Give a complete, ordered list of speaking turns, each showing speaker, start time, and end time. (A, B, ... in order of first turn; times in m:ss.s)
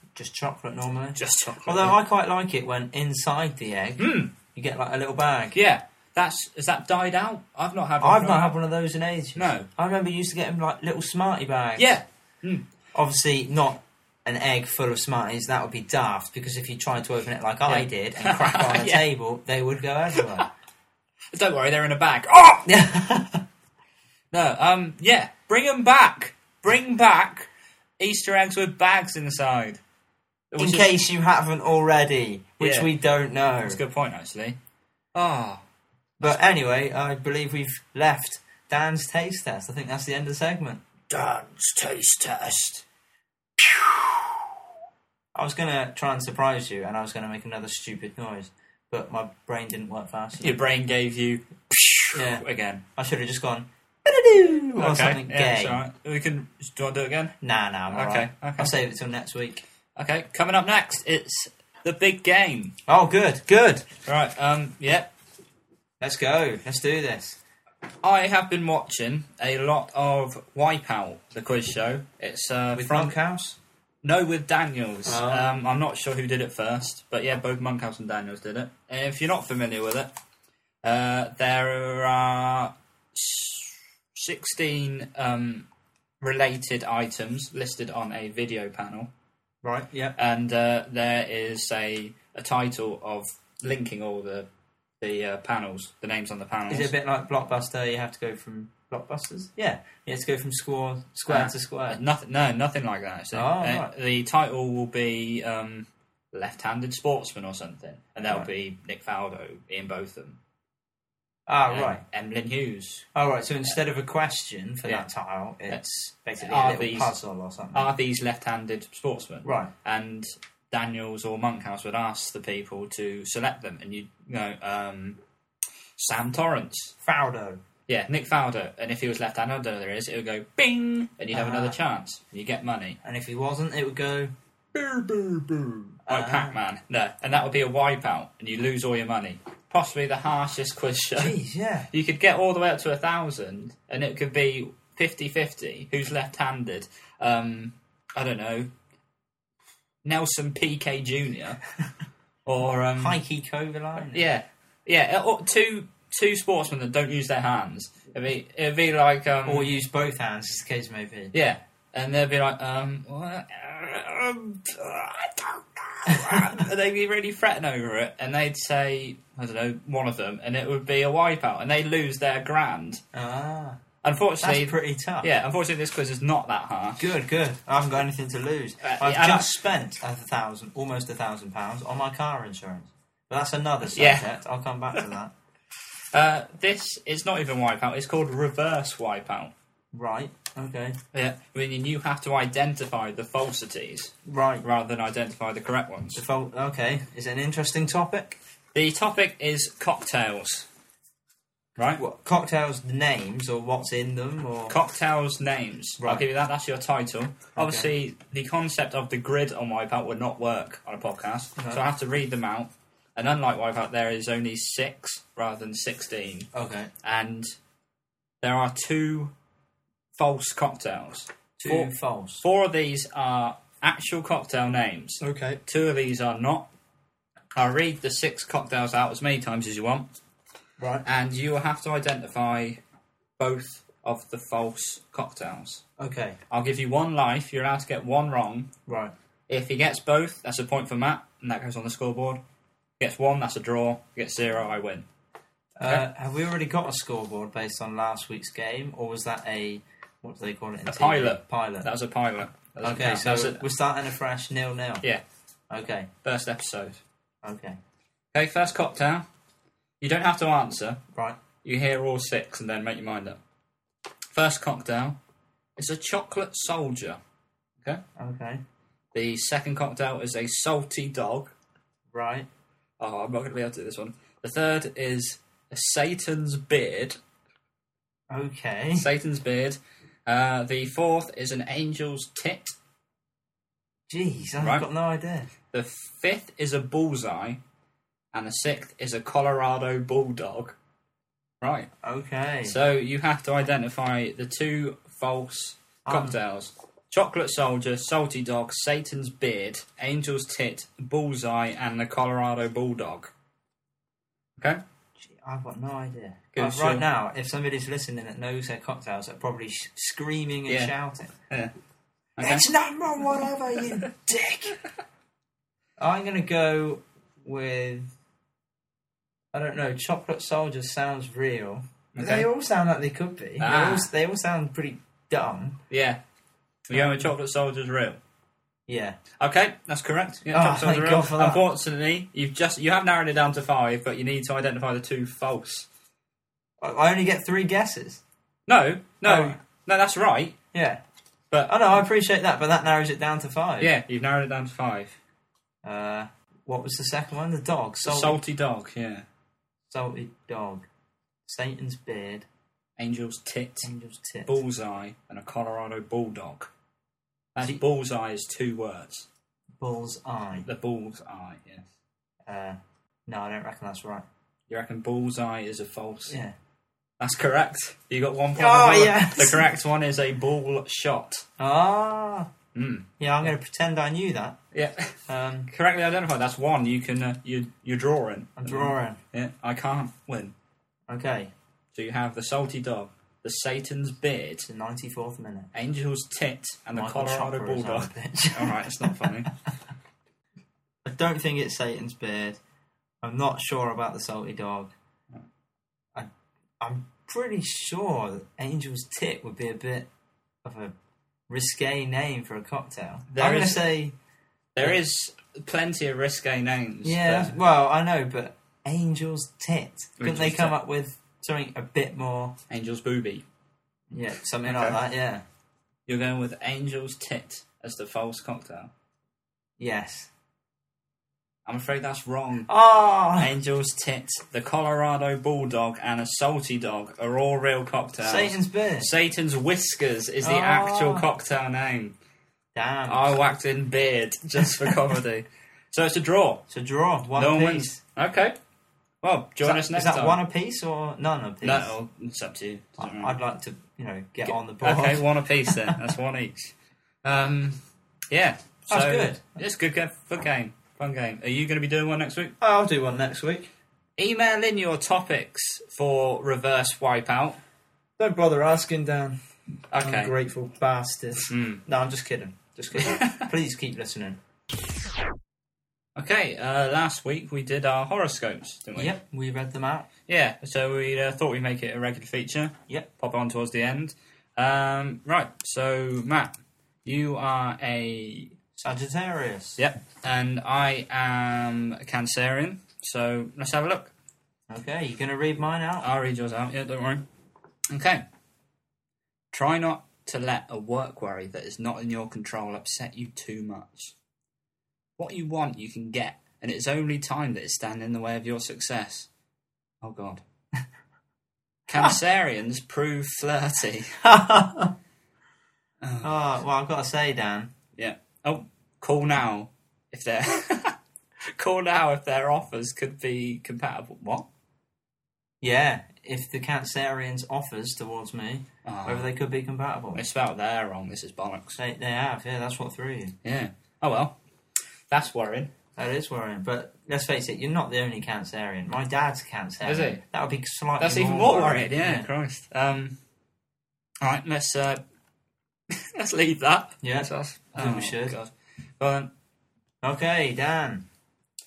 0:00.2-0:05.6 A
0:01.2-0:02.0 B
0:04.0-0:04.3 B
0:05.5-0:08.6 B
0:08.0-0:12.0 A
0:09.4-0:09.7 B
0:11.8-0:12.7 B
0:12.9-0:20.5 A
0:17.7-0:19.0 B
0:20.2-0:20.4 B
0:21.3-0:22.7 B
0:22.7-0:23.4 A
0:24.3-0:29.8 B
0:30.5-0:30.9 B
0:30.6-0:33.8 A
0:32.6-0:32.9 B
0:33.6-0:34.6 B
0:35.2-0:35.6 B
0:36.2-0:40.8 A
0:41.1-0:42.8 B
0:43.6-0:44.4 B
0:45.4-0:50.6 A
0:50.4-0:52.8 B
0:52.1-0:55.8 A
0:54.8-0:57.4 B
0:57.4-0:59.6 A
0:57.9-0:58.8 B
1:00.0-1:02.7 B
1:02.9-1:03.8 A
1:04.0-1:05.1 B
1:06.0-1:07.4 A
1:08.0-1:13.2 B
1:12.8-1:13.6 A
1:14.0-1:20.1 B
1:15.0-1:15.6 A
1:20.8-1:25.7 B
1:26.2-1:29.1 B
1:29.6-1:30.2 A
1:30.2-1:34.5 B
1:35.0-1:36.9 B
1:36.7-1:42.0 A
1:41.3-1:50.4 B
1:43.3-1:43.9 A
1:51.5-1:52.0 A
1:51.7-1:53.1 B
1:53.2-1:57.9 A
1:55.7-1:57.2 B
1:57.7-2:05.2 B
1:59.4-1:59.7 A
2:06.0-2:06.9 B
2:07.0-2:07.6 A
2:07.9-2:13.0 B
2:11.3-2:11.8 A
2:13.0-2:14.3 A
2:14.7-2:21.4 B
2:16.1-2:16.6 A
2:21.2-2:21.9 A
2:21.9-2:28.7 B
2:30.0-2:31.6 B
2:32.5-2:33.2 B
2:33.0-2:34.3 A
2:34.0-2:39.7 B
2:39.4-2:41.3 A
2:41.3-2:53.0 B
2:46.1-2:46.6 A
2:53.1-2:53.8 A
2:54.0-2:57.0 B
2:54.4-2:55.3 A
2:57.0-3:05.3 A
2:58.8-2:59.5 B
3:03.9-3:04.3 B
3:06.1-3:09.5 B
3:09.9-3:11.0 A
3:11.1-3:16.2 B
3:14.2-3:14.7 A
3:16.2-3:18.4 A
3:18.7-3:20.7 B
3:22.0-3:24.8 A
3:24.7-3:36.5 B
3:26.0-3:26.3 A
3:27.6-3:27.9 A
3:31.6-3:31.8 A
3:36.5-3:36.9 A
3:37.0-3:37.5 B
3:38.4-3:39.3 B
3:40.2-3:46.7 B
3:41.6-3:42.4 A
3:45.2-3:45.6 A
3:47.6-3:50.1 B
3:50.8-3:51.1 A
3:51.0-3:52.8 B
3:53.4-3:55.8 B
3:56.0-3:56.4 A
3:56.5-3:58.7 B
3:58.9-3:59.1 A
3:59.5-4:02.4 B
4:03.0-4:05.1 B
4:05.8-4:11.9 A
4:10.9-4:13.6 B
4:12.8-4:15.0 A
4:15.7-4:16.1 A
4:16.2-4:17.0 B
4:17.4-4:17.8 A
4:18.3-4:19.2 B
4:20.0-4:21.0 B
4:21.1-4:21.4 A
4:21.6-4:23.4 B
4:24.3-4:25.2 B
4:25.8-4:27.2 B
4:28.2-4:28.6 A
4:29.1-4:31.5 B
4:32.1-4:32.5 A
4:33.0-4:37.2 B
4:38.3-4:39.1 A
4:39.0-4:42.7 B
4:44.1-4:45.5 A
4:44.6-4:44.9 B
4:45.7-4:47.6 B
4:48.3-4:50.8 B
4:51.6-4:51.9 B
4:52.0-4:52.8 A
4:52.6-5:03.3 B
4:56.0-4:56.4 A
5:05.2-5:11.3 A
5:06.5-5:07.0 B
5:10.7-5:10.9 B
5:12.4-5:12.7 B
5:12.4-5:14.8 A
5:16.0-5:18.1 A
5:19.5-5:25.8 A
5:22.2-5:22.5 B
5:23.6-5:24.1 B
5:25.9-5:26.2 B
5:26.9-5:28.2 B
5:26.9-5:27.3 A
5:28.9-5:29.2 A
5:29.4-5:35.9 B
5:30.5-5:31.6 A
5:36.8-5:38.2 A
5:38.7-5:40.6 B
5:39.2-5:39.6 A
5:40.7-5:41.0 A
5:41.5-5:42.0 B
5:41.7-5:43.9 A
5:43.8-5:45.2 B
5:45.8-5:48.4 A
5:48.0-5:49.3 B
5:49.9-5:50.9 A
5:51.5-5:52.5 A
5:53.0-5:53.9 B
5:53.8-5:54.5 A
5:54.5-5:56.7 B
5:57.6-5:59.3 B
5:59.8-6:00.7 A
6:00.6-6:01.8 B
6:02.5-6:04.2 A
6:04.7-6:06.4 B
6:06.3-6:06.5 A
6:07.2-6:11.4 B
6:08.6-6:09.6 A
6:11.6-6:12.5 A
6:12.8-6:13.1 B
6:13.2-6:14.6 A
6:14.7-6:15.1 B
6:15.3-6:15.7 A
6:15.7-6:20.5 B
6:18.6-6:19.2 A
6:21.1-6:21.5 A
6:21.9-6:24.7 B
6:24.6-6:25.7 A
6:25.7-6:29.5 B
6:26.9-6:29.5 A
6:31.0-6:32.6 A
6:33.2-6:34.9 A
6:36.8-6:40.1 A
6:40.6-6:40.9 A
6:41.5-6:44.2 A
6:43.3-6:43.9 B
6:44.8-6:47.6 B
6:47.0-6:52.6 A
6:50.2-6:50.8 B
6:52.7-6:53.4 B
6:54.1-6:55.4 A
6:54.7-6:55.0 B
6:56.1-6:58.9 B
6:59.8-7:00.3 A
7:01.7-7:02.7 B
7:02.7-7:03.5 A
7:03.4-7:12.2 B
7:08.2-7:09.1 A
7:10.4-7:11.3 A
7:12.8-7:13.4 A
7:13.1-7:16.7 B
7:16.7-7:18.0 A
7:17.4-7:18.6 B
7:19.2-7:20.4 B
7:19.6-7:22.0 A
7:21.6-7:23.4 B
7:23.0-7:26.0 A
7:24.5-7:32.6 B
7:28.9-7:29.4 A
7:32.6-7:33.7 A
7:34.2-7:37.6 B
7:38.2-7:39.4 A
7:39.9-7:40.3 B
7:40.0-7:44.4 A
7:41.5-7:41.8 B
7:42.9-7:43.5 B
7:46.2-7:49.1 B
7:49.0-7:50.1 A
7:50.3-7:56.5 B
7:57.0-7:58.6 B
7:58.8-7:59.8 A
7:59.8-8:04.1 B
8:04.7-8:06.1 A
8:06.0-8:07.3 B
8:07.9-8:08.2 B
8:09.5-8:14.1 B
8:15.2-8:19.3 B
8:20.0-8:20.4 B
8:21.9-8:24.1 B
8:24.2-8:24.9 A
8:26.0-8:26.3 B
8:26.2-8:27.7 A
8:28.0-8:34.5 B
8:35.6-8:40.2 A
8:38.8-8:39.3 B
8:40.2-8:41.8 B
8:41.8-8:43.4 A
8:43.4-8:44.4 B
8:45.1-8:45.7 B
8:46.0-8:52.3 A
8:49.8-8:50.2 B
8:51.0-8:53.2 B
8:54.2-8:55.0 B
8:55.9-8:59.3 B
8:57.0-8:58.4 A
9:00.0-9:01.0 A